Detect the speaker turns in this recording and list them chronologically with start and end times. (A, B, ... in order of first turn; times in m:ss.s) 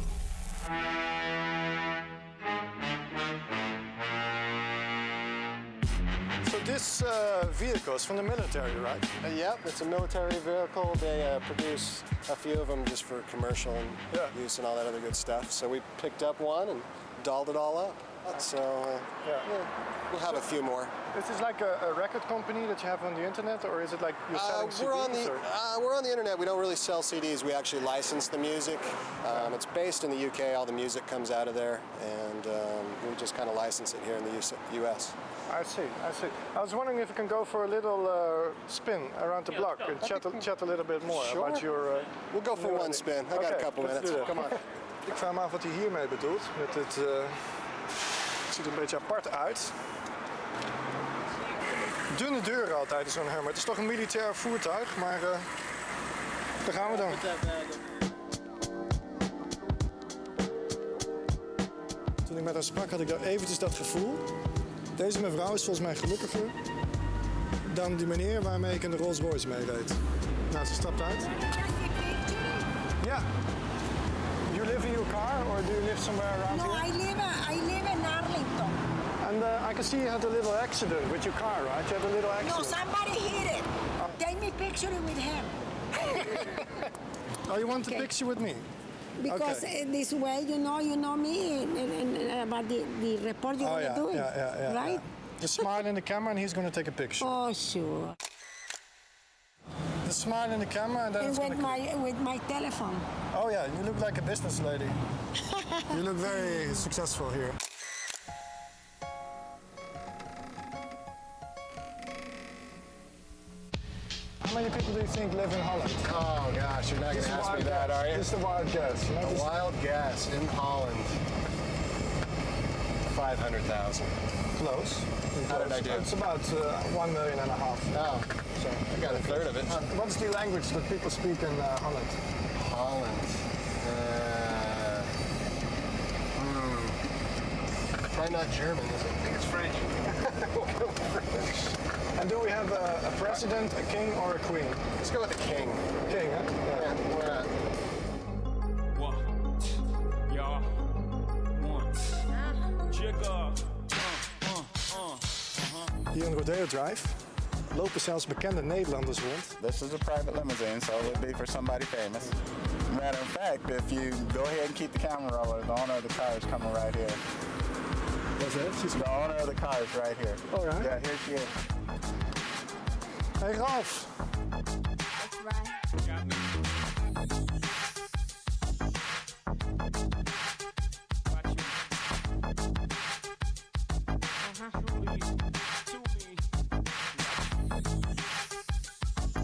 0:06.4-0:09.1 A
0:09.2-0:20.9 B
0:14.1-0:14.4 A
0:19.2-0:19.5 A
0:21.1-0:25.4 A
0:24.3-0:35.1 B
0:35.5-0:47.5 A
0:41.1-0:41.6 B
0:42.2-0:44.6 B
0:48.5-0:49.8 A
0:52.1-0:55.5 A
0:56.6-0:57.3 A
1:02.2-1:04.2 A
1:05.0-1:06.6 A
1:07.6-1:10.0 A
1:10.5-1:11.3 A
1:11.2-1:12.7 C
1:13.0-1:13.3 A
1:14.5-1:16.9 A
1:16.5-1:18.8 C
1:19.2-1:22.8 A
1:22.4-1:26.7 C
1:26.1-1:26.6 A
1:27.4-1:28.6 A
1:27.7-1:28.1 C
1:29.2-1:35.0 C
1:29.3-1:29.7 A
1:33.6-1:37.3 A
1:37.2-1:38.2 C
1:40.0-1:41.8 A
1:41.2-1:43.0 C
1:43.3-1:45.0 A
1:45.9-1:47.6 A
1:46.4-1:46.8 C
1:54.4-1:56.1 A
1:56.1-1:58.3 B
1:57.1-1:59.5 A
1:59.1-2:01.2 B
2:03.1-2:04.1 B
2:04.5-2:08.0 A
2:05.5-2:06.1 B
2:07.9-2:08.2 B
2:08.6-2:12.2 A
2:08.9-2:09.8 B
2:12.6-2:13.3 B
2:13.8-2:15.0 B
2:16.4-2:17.0 B
2:18.1-2:21.7 B
2:22.1-2:24.8 A
2:25.0-2:25.8 B
2:26.1-2:27.0 A
2:26.7-2:27.5 B
2:28.9-2:29.5 D
2:30.3-2:30.8 D
2:31.5-2:32.2 D
2:32.9-2:35.9 D
2:36.1-2:39.6 A
2:39.6-2:42.3 E
2:42.9-2:47.2 E
2:48.4-2:49.0 A
2:48.8-2:51.5 E
2:50.5-2:50.9 A
2:53.4-2:54.1 A
2:56.0-2:56.6 D
3:01.3-3:01.8 D
3:04.4-3:05.3 D
3:05.8-3:06.4 D
3:07.1-3:07.7 D